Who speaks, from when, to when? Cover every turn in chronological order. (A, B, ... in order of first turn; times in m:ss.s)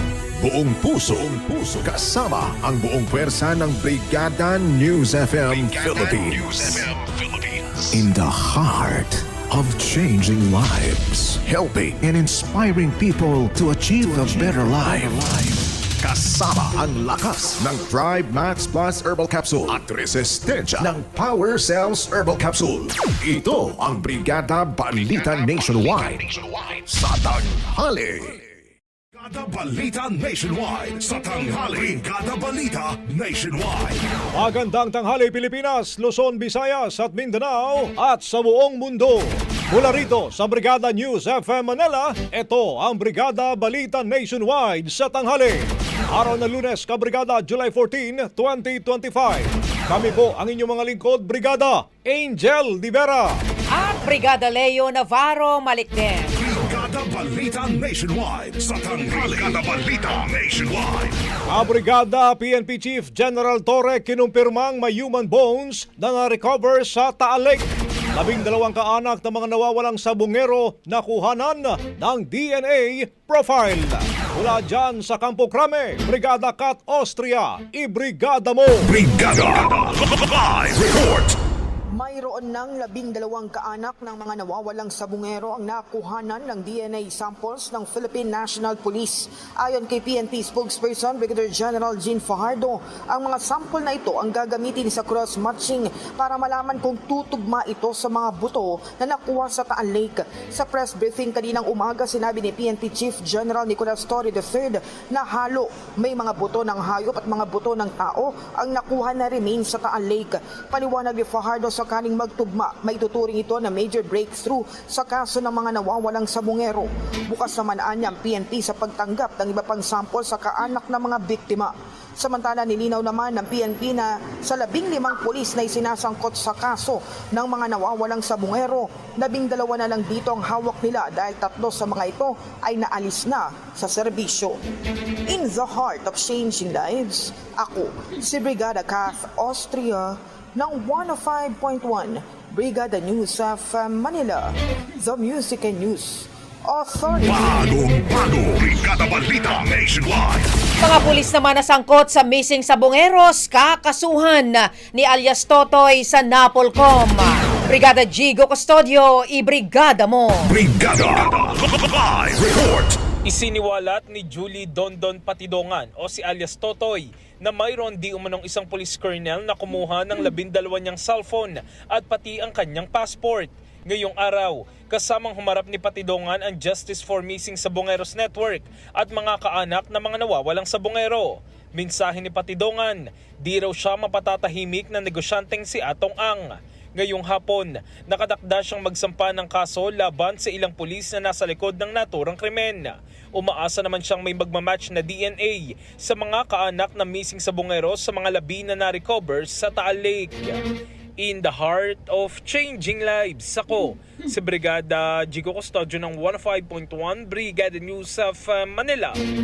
0:00.4-0:28.4 A
0:29.1-0:34.1 B
0:34.3-0:53.4 C
0:53.7-0:56.3 D
0:56.3-1:01.2 B
1:01.5-1:18.9 C
1:18.9-1:21.3 B
1:21.9-2:14.6 E
2:15.3-2:27.6 E
2:27.2-2:30.5 B
2:30.8-2:40.5 D
2:40.5-2:43.0 B
2:43.2-3:20.6 F
3:21.2-3:29.1 F